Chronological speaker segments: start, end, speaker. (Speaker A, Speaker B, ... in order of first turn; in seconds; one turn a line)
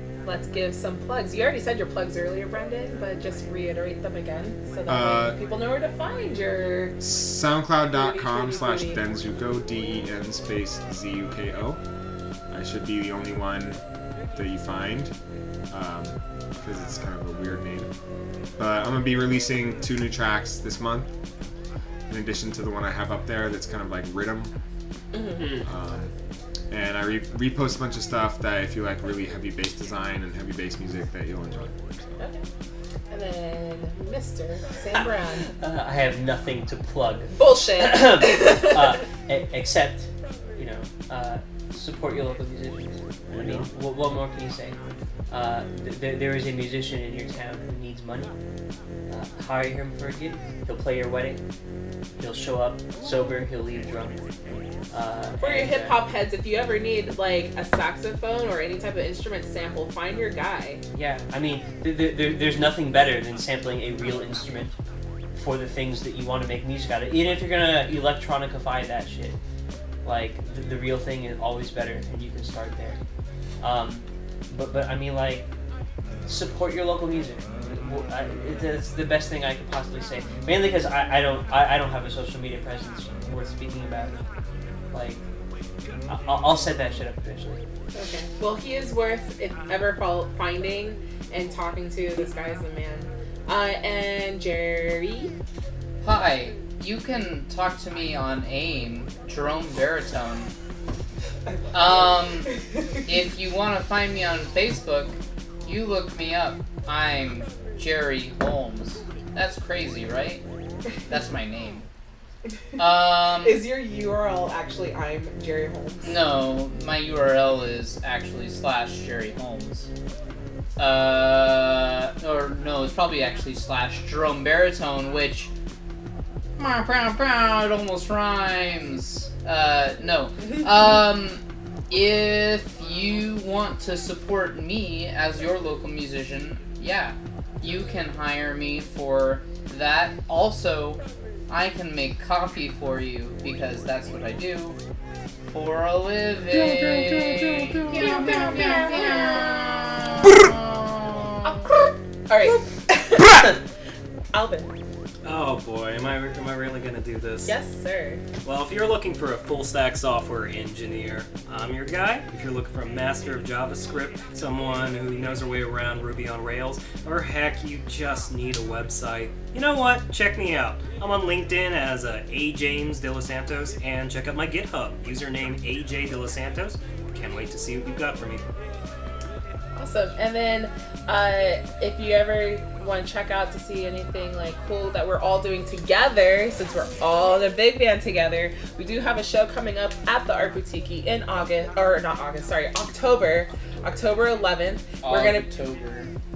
Speaker A: 0.2-7.0
Speaker B: 4.9-5.4
Speaker B: 7.0-11.8
Speaker A: 7.8-9.0
Speaker B: 12.5-13.8
Speaker B: 14.3-15.1
Speaker B: 15.7-17.9
Speaker B: 18.6-21.1
Speaker B: 22.1-24.5
Speaker A: 25.1-25.5
Speaker C: 25.4-25.6
Speaker B: 25.6-26.1
Speaker B: 26.7-32.1
Speaker A: 32.2-32.4
Speaker A: 33.1-35.5
Speaker C: 35.6-44.8
Speaker A: 37.3-38.9
Speaker B: 43.3-43.7
Speaker C: 45.3-48.3
Speaker C: 49.1-51.4
Speaker C: 52.2-54.2
Speaker C: 54.9-56.0
Speaker A: 55.4-60.8
Speaker C: 60.9-64.8
Speaker C: 65.3-69.4
Speaker C: 70.0-73.0
Speaker C: 73.6-75.5
Speaker C: 76.3-84.2
Speaker C: 84.9-85.2
Speaker C: 86.1-87.6
Speaker A: 87.9-95.3
Speaker D: 96.0-100.5
Speaker D: 101.7-102.5
Speaker D: 103.1-110.4
Speaker D: 111.1-111.8
Speaker D: 112.8-113.6
Speaker A: 112.9-116.1
Speaker D: 116.0-119.9
Speaker D: 120.8-125.5
Speaker D: 126.6-144.8
Speaker D: 145.5-151.6
Speaker A: 147.9-149.3
Speaker A: 151.4-153.6
Speaker A: 154.3-154.7
Speaker E: 155.2-157.5
Speaker A: 157.4-158.2
Speaker E: 158.4-178.4
Speaker A: 179.7-195.5
Speaker D: 195.0-196.1